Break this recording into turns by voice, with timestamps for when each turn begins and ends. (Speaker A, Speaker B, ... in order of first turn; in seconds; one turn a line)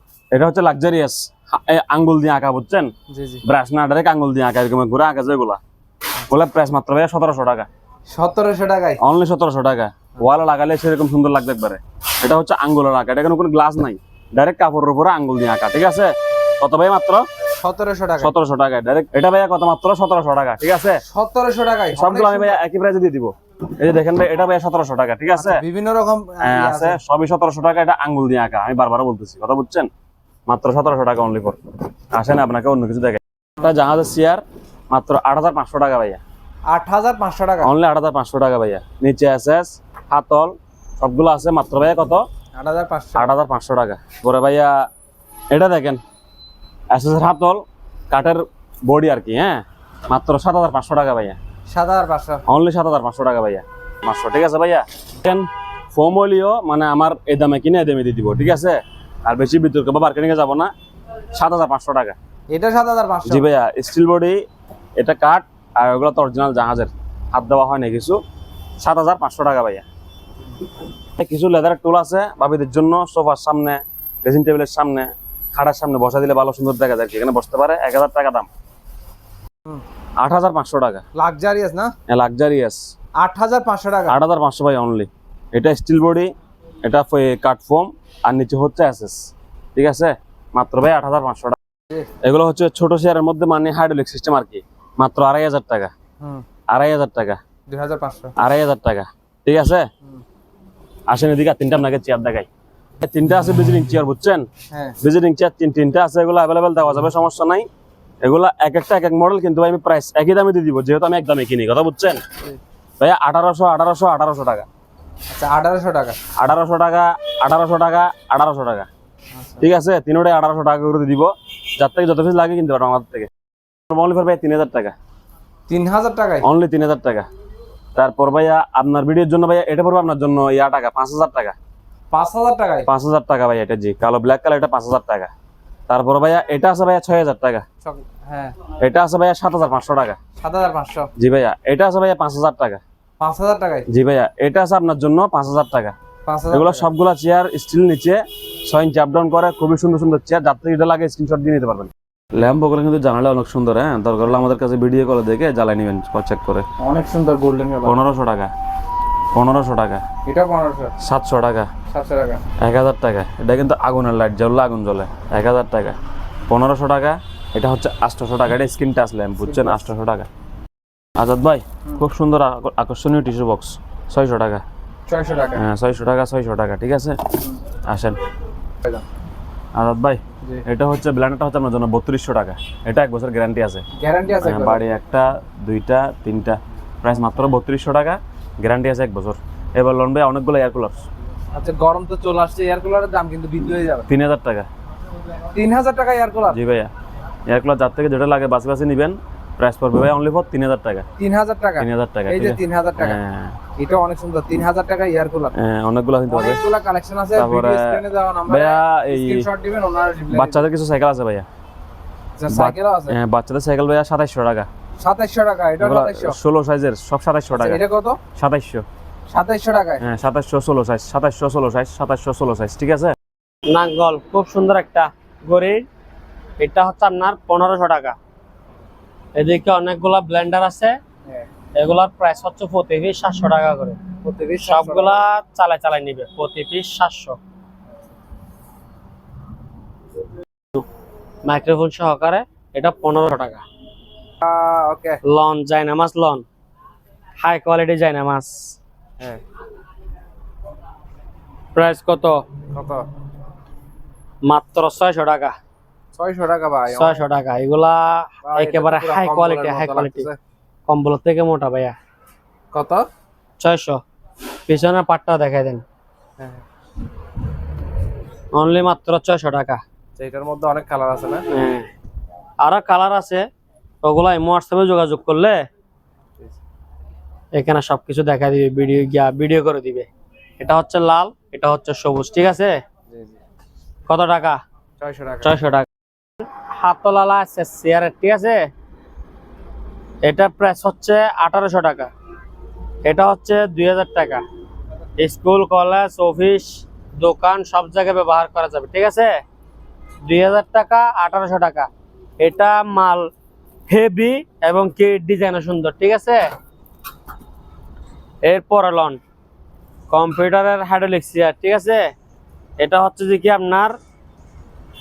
Speaker A: 0.3-5.6
Speaker B: 3.1-3.4
Speaker A: 6.3-7.7
Speaker B: 8.1-9.0
Speaker A: 9.0-17.3
Speaker B: 17.6-18.3
Speaker A: 18.2-21.0
Speaker B: 21.1-22.6
Speaker A: 21.9-25.6
Speaker B: 25.4-27.0
Speaker A: 26.4-29.9
Speaker A: 30.5-36.2
Speaker B: 36.7-37.7
Speaker A: 37.6-42.3
Speaker B: 42.6-43.3
Speaker A: 43.2-44.9
Speaker A: 45.5-46.0
Speaker A: 46.9-51.4
Speaker B: 51.7-52.4
Speaker A: 52.5-60.7
Speaker A: 61.3-62.2
Speaker B: 62.5-63.5
Speaker A: 63.2-64.4
Speaker A: 65.0-68.2
Speaker A: 68.8-69.9
Speaker A: 71.2-78.5
Speaker A: 80.2-81.0
Speaker B: 81.2-81.9
Speaker A: 82.1-82.8
Speaker B: 83.2-84.2
Speaker A: 84.1-86.3
Speaker A: 86.8-89.2
Speaker A: 89.8-91.6
Speaker A: 92.2-95.9
Speaker A: 96.7-97.4
Speaker B: 97.7-98.3
Speaker A: 98.4-99.9
Speaker A: 101.1-102.5
Speaker A: 103.0-104.5
Speaker B: 104.7-105.0
Speaker A: 105.0-107.7
Speaker A: 108.2-112.2
Speaker A: 113.0-114.7
Speaker B: 115.3-116.2
Speaker A: 116.4-118.9
Speaker B: 119.4-119.7
Speaker A: 119.6-123.3
Speaker A: 123.9-125.0
Speaker B: 125.7-126.5
Speaker A: 126.4-127.3
Speaker A: 128.0-131.6
Speaker B: 132.1-132.9
Speaker A: 132.8-135.3
Speaker A: 135.9-137.7
Speaker B: 137.8-138.5
Speaker A: 138.8-140.2
Speaker B: 140.4-141.1
Speaker A: 141.2-142.8
Speaker B: 143.2-143.9
Speaker A: 143.9-146.0
Speaker B: 146.3-146.9
Speaker A: 146.5-156.7
Speaker B: 156.8-158.0
Speaker A: 157.8-158.5
Speaker A: 159.3-160.1
Speaker B: 160.2-160.9
Speaker A: 161.0-161.7
Speaker B: 161.9-162.4
Speaker A: 162.6-166.0
Speaker A: 166.5-170.3
Speaker A: 171.2-174.6
Speaker B: 175.1-175.6
Speaker A: 175.5-178.2
Speaker A: 179.8-183.9
Speaker B: 184.0-184.8
Speaker A: 184.4-191.1
Speaker B: 191.5-194.1
Speaker A: 194.1-194.7
Speaker B: 195.5-196.6
Speaker A: 196.5-196.9
Speaker A: 197.5-201.1
Speaker B: 201.2-203.2
Speaker A: 201.8-203.6
Speaker B: 203.8-205.6
Speaker A: 205.5-206.6
Speaker B: 206.3-210.6
Speaker A: 207.3-209.5
Speaker A: 210.3-211.5
Speaker B: 212.4-213.2
Speaker A: 212.5-214.7
Speaker B: 215.0-216.4
Speaker A: 215.8-217.8
Speaker B: 217.6-218.2
Speaker A: 218.3-218.9
Speaker B: 219.3-220.0
Speaker A: 220.0-223.2
Speaker C: 223.7-225.9
Speaker C: 226.6-228.2
Speaker C: 229.4-231.0
Speaker C: 231.8-234.0
Speaker B: 234.2-235.2
Speaker C: 234.6-237.4
Speaker C: 241.5-243.6
Speaker B: 244.4-245.2
Speaker C: 245.2-246.4
Speaker C: 247.4-248.8
Speaker C: 251.8-252.4
Speaker B: 252.7-253.1
Speaker C: 254.4-255.6
Speaker B: 256.1-257.2
Speaker C: 256.9-260.3
Speaker B: 258.4-260.4
Speaker C: 260.9-262.0
Speaker B: 262.7-263.1
Speaker C: 263.6-264.0
Speaker C: 264.7-265.8
Speaker C: 268.5-269.8
Speaker B: 270.2-271.5
Speaker C: 271.5-271.9
Speaker C: 272.6-273.5
Speaker C: 274.0-275.7
Speaker C: 277.5-280.1
Speaker C: 280.6-282.8
Speaker B: 283.1-283.4
Speaker C: 284.1-284.6
Speaker B: 285.0-285.6
Speaker C: 285.4-285.9
Speaker C: 286.7-288.6
Speaker C: 290.2-292.1
Speaker C: 293.0-294.4
Speaker C: 295.2-299.4
Speaker C: 300.2-301.9
Speaker C: 302.4-303.3
Speaker C: 303.9-306.4
Speaker C: 308.4-309.2
Speaker C: 310.1-312.1
Speaker C: 312.8-314.0